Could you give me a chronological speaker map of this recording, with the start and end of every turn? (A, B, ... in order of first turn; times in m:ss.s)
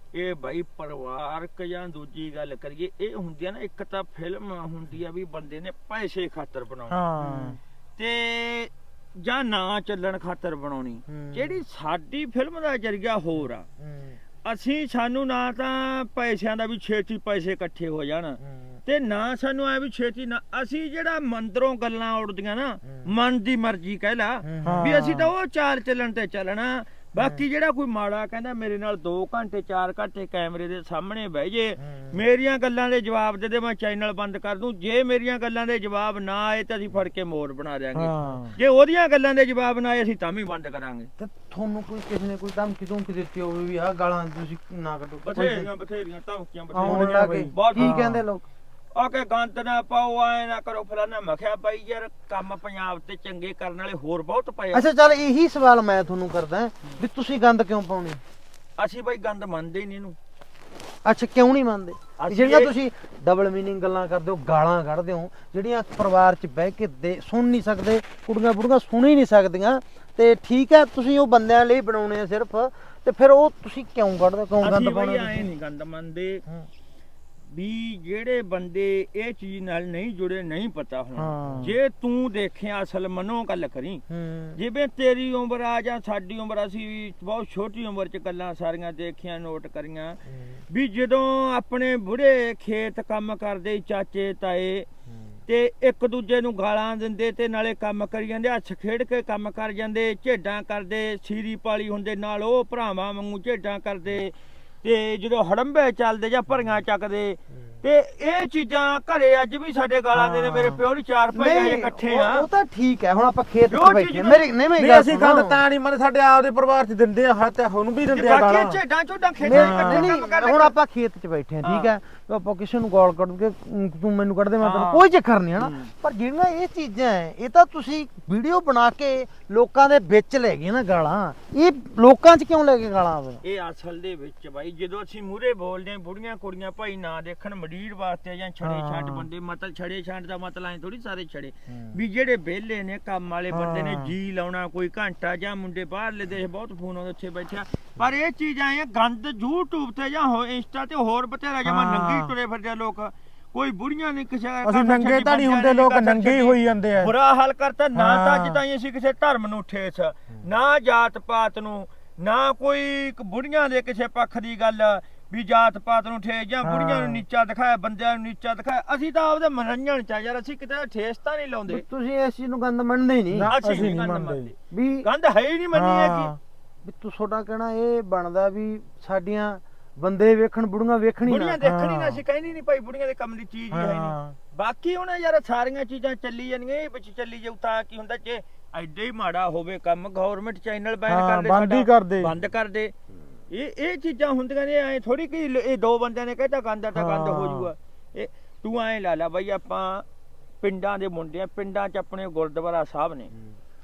0:00.1-0:07.0 A
0:06.9-0:07.6 B
0:07.2-0:07.6 C
0:08.0-0:13.7 A
0:11.1-0:11.6 C
0:13.8-0:14.2 C
0:14.4-0:41.1 A
0:18.4-0:18.8 C
0:22.8-0:23.1 C
0:24.4-0:25.0 C
0:24.6-0:25.3 B
0:27.2-0:27.4 C
0:31.8-0:32.2 C
0:38.0-0:38.6 B
0:41.2-0:45.7 C
0:45.2-0:48.0 A
0:46.7-0:48.2 B
0:46.8-0:48.5 C
0:48.9-0:54.9 A
0:54.7-0:58.2 C
0:58.8-1:00.2 A
1:01.0-1:15.5 C
1:02.2-1:02.7 A
1:14.6-1:16.4 A
1:17.5-1:24.0 A
1:21.2-1:21.8 B
1:24.1-1:24.6 C
1:24.6-1:34.9 A
1:30.3-1:30.6 C
1:35.1-1:35.3 C
1:35.5-1:52.5 A
1:50.1-1:50.8 B
1:51.3-1:55.6 C
1:53.7-1:54.5 A
1:54.8-1:58.8 B
1:58.1-2:00.7 A
1:59.4-2:13.4 C
1:59.5-2:00.1 B
2:01.6-2:01.9 A
2:04.6-2:05.1 A
2:05.6-2:05.9 A
2:13.4-2:51.8 A
2:18.6-2:19.3 B
2:21.7-2:22.0 C
2:23.5-2:24.1 B
2:31.6-2:32.3 B
2:34.6-2:37.1 B
2:38.0-2:38.6 B
2:46.6-2:47.2 B
2:51.7-2:53.5 C
2:53.3-2:54.5 B
2:53.5-2:56.3 A
2:54.7-2:55.1 C
2:55.7-2:56.4 B
2:56.8-3:01.6 C
3:01.2-3:12.9 A
3:01.6-3:02.2 B
3:03.7-3:04.4 B
3:11.1-3:12.3 B
3:13.5-3:20.0 A
3:17.0-3:17.7 B
3:20.6-3:23.3 A